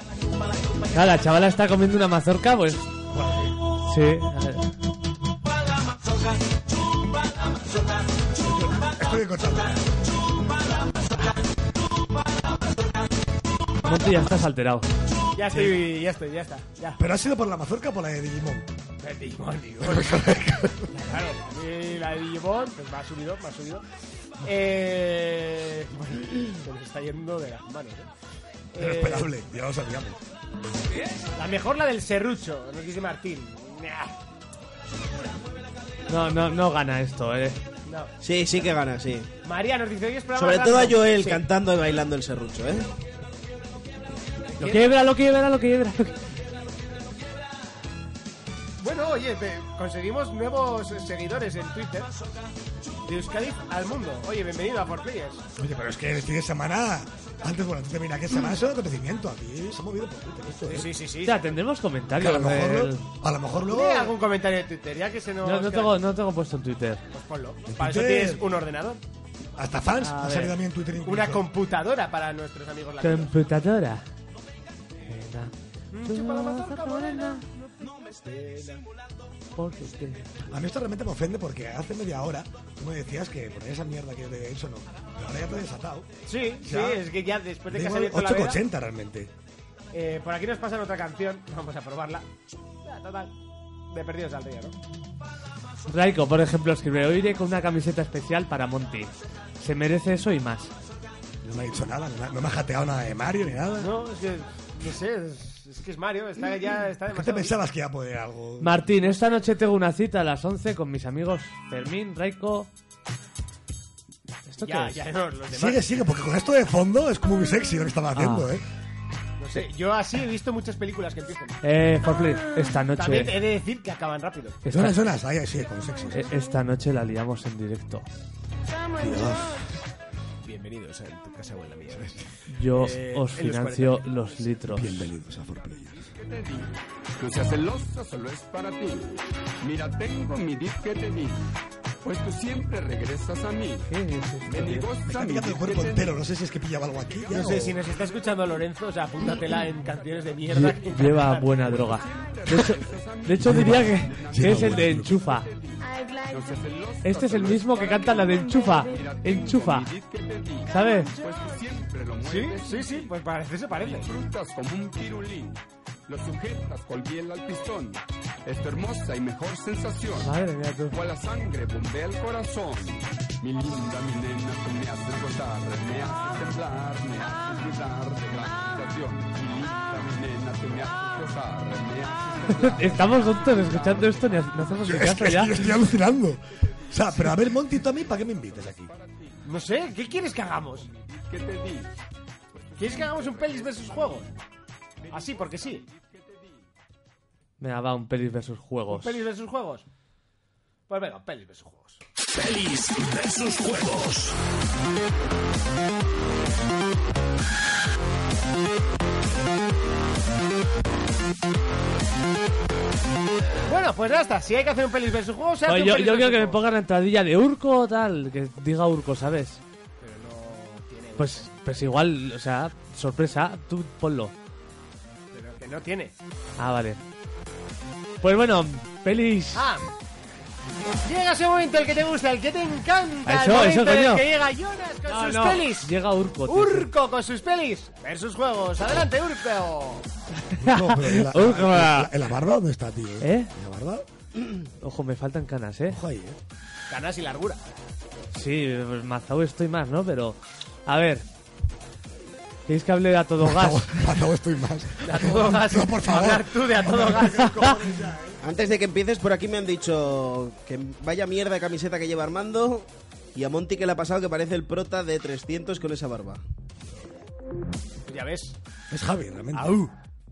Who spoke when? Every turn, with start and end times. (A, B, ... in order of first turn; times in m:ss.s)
0:00.9-0:02.9 A
0:03.1-0:03.6 B
0:03.8-0:04.7 A
0:08.4-0:10.0 B
0:13.8-0:14.9 A
0:15.3-0:17.0 C
0:15.5-0:15.8 B
0:17.0-0:18.7 B
0:19.0-0:20.2 C
0:19.8-0:20.9 B
0:20.9-0:23.8 C
0:24.4-0:28.1 C
0:28.7-0:29.3 C
0:28.8-0:30.2 B
0:31.4-0:34.1 C
0:36.1-0:37.6 A
0:37.9-0:38.1 C
0:38.2-0:39.3 D
0:39.4-0:41.4 C
0:40.3-0:42.9 D
0:44.6-0:44.9 C
0:44.6-0:46.2 A
0:48.8-0:52.1 C
0:53.1-0:55.4 C
0:55.6-1:00.9 B
1:00.6-1:01.5 C
1:01.2-1:03.0 A
1:02.2-1:04.1 B
1:03.7-1:05.9 C
1:05.4-1:07.0 A
1:07.1-1:09.0 C
1:07.7-1:08.5 B
1:09.6-1:11.5 B
1:10.0-1:10.6 A
1:11.0-1:13.3 C
1:13.0-1:14.0 A
1:15.1-1:15.5 A
1:15.9-1:18.8 C
1:16.0-1:17.4 A
1:19.6-1:20.3 A
1:20.4-1:26.1 B
1:26.2-1:28.6 C
1:26.6-1:27.1 B
1:27.7-1:29.3 B
1:29.9-1:32.3 C
1:32.8-1:33.3 C
1:33.9-1:34.8 C
1:35.9-1:40.7 A
1:41.4-1:43.9 B
1:43.8-1:47.5 C
1:47.1-1:48.8 B
1:48.6-1:52.7 A
1:54.5-1:55.0 A
1:54.6-1:55.8 C
1:55.5-1:58.6 B
1:58.1-1:58.5 A
1:59.4-2:01.6 C
2:01.6-2:03.4 A
2:03.0-2:04.6 C
2:04.6-2:05.0 A
2:04.7-2:06.3 B
2:06.1-2:08.1 A
2:09.0-2:09.8 B
2:10.4-2:14.1 C
2:12.5-2:15.1 A
2:14.7-2:16.1 B
2:16.0-2:21.4 E
2:22.0-2:23.9 E
2:23.9-2:24.8 A
2:24.4-2:26.2 E
2:25.1-2:27.8 B
2:27.1-2:28.3 E
2:27.3-2:31.7 C
2:30.1-2:30.6 E
2:30.5-2:35.5 A
2:31.6-2:43.1 E
2:33.4-2:35.2 B
2:37.0-2:39.9 A
2:40.7-2:41.1 A
2:42.2-2:44.1 C
2:43.8-2:50.3 E
2:50.2-2:51.0 A
2:50.9-3:04.8 E
3:02.5-3:05.6 A
3:04.8-3:08.9 B
3:06.9-3:07.4 E
3:08.4-3:10.1 E
3:09.4-3:10.9 C
3:10.8-3:11.9 E
3:12.6-3:14.2 E
3:12.8-3:14.3 C
3:15.1-3:15.8 C
3:15.1-3:16.6 E
3:17.6-3:19.2 A
3:18.9-3:19.8 C
3:20.9-3:22.0 C
3:22.4-3:24.3 F
3:33.7-3:36.6 C
3:35.7-3:39.6 A
3:40.0-3:41.5 C
3:41.2-3:44.3 A
3:45.3-3:46.1 C
3:46.6-3:47.0 A
3:48.2-3:49.6 A
3:49.5-3:49.9 C
3:51.0-3:55.9 C
3:53.2-3:54.2 A
3:55.1-3:56.9 A
3:56.5-4:00.1 C
4:00.5-4:02.1 A
4:00.6-4:04.1 B
4:03.2-4:03.5 A
4:04.8-4:06.0 A
4:05.9-4:06.4 B
4:06.9-4:07.6 C
4:08.3-4:11.2 A
4:12.7-4:13.9 A
4:13.4-4:18.4 B
4:15.0-4:17.8 C
4:18.4-4:26.4 D
4:28.1-4:28.6 C
4:28.9-4:29.9 B
4:29.5-4:29.8 C